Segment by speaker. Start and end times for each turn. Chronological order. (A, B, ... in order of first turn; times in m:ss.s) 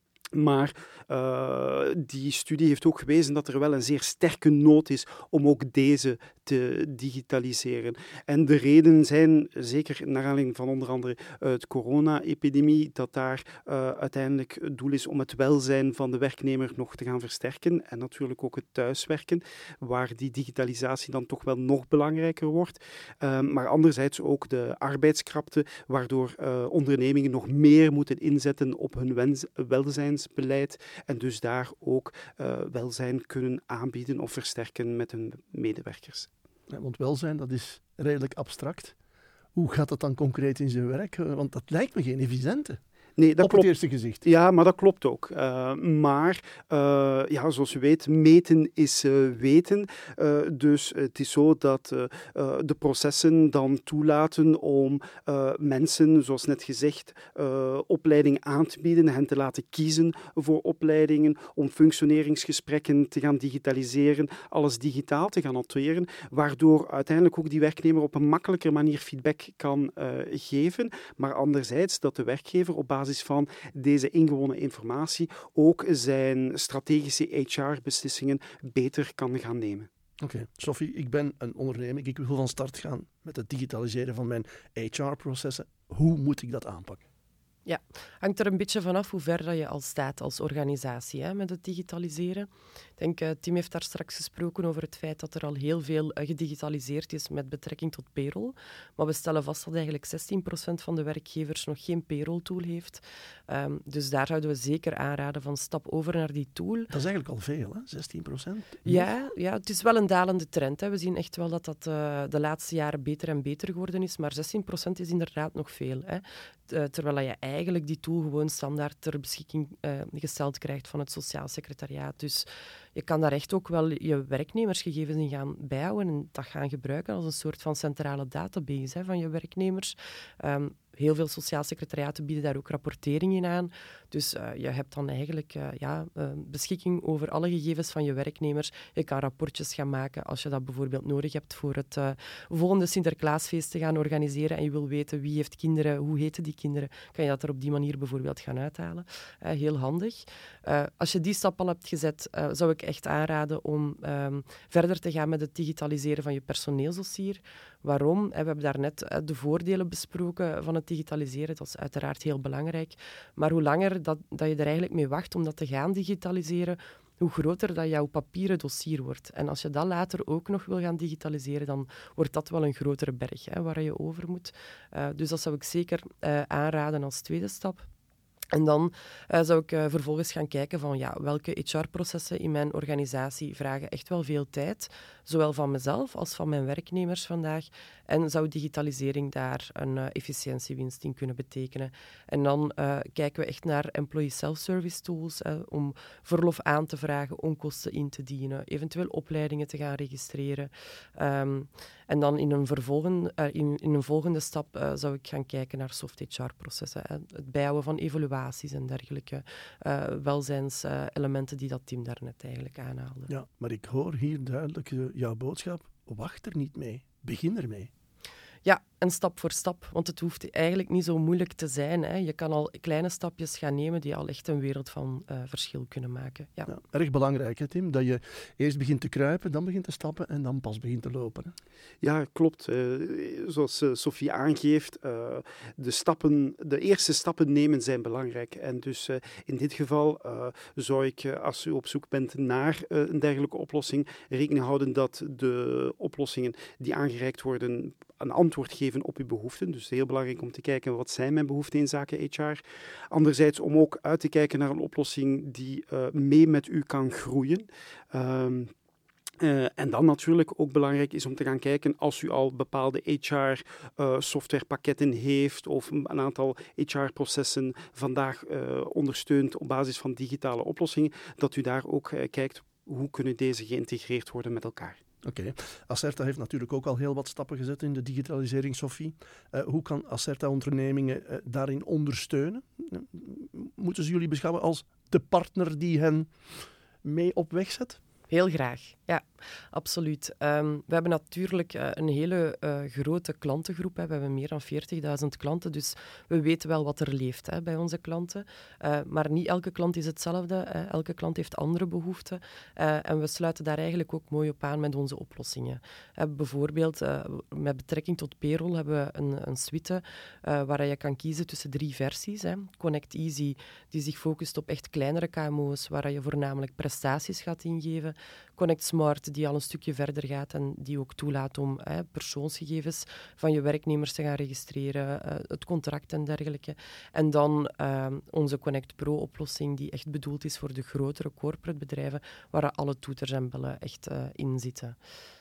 0:00.3-0:36.3 A
0:36.7-0:39.0 B
0:39.6-0:42.8 B
0:43.2-0:43.7 A
0:43.4-0:44.2 B
0:44.2-1:19.9 A
1:20.2-1:27.0 B
1:27.6-1:46.9 C
1:46.9-1:49.1 B
1:48.8-2:57.8 C
2:58.5-3:33.3 C
3:33.3-3:37.9 B
3:38.6-3:46.7 C
3:46.7-3:51.6 B
3:52.0-4:18.7 A
4:19.4-4:35.0 A
4:35.2-4:46.3 B
4:47.0-4:48.0 B
4:48.3-5:35.0 C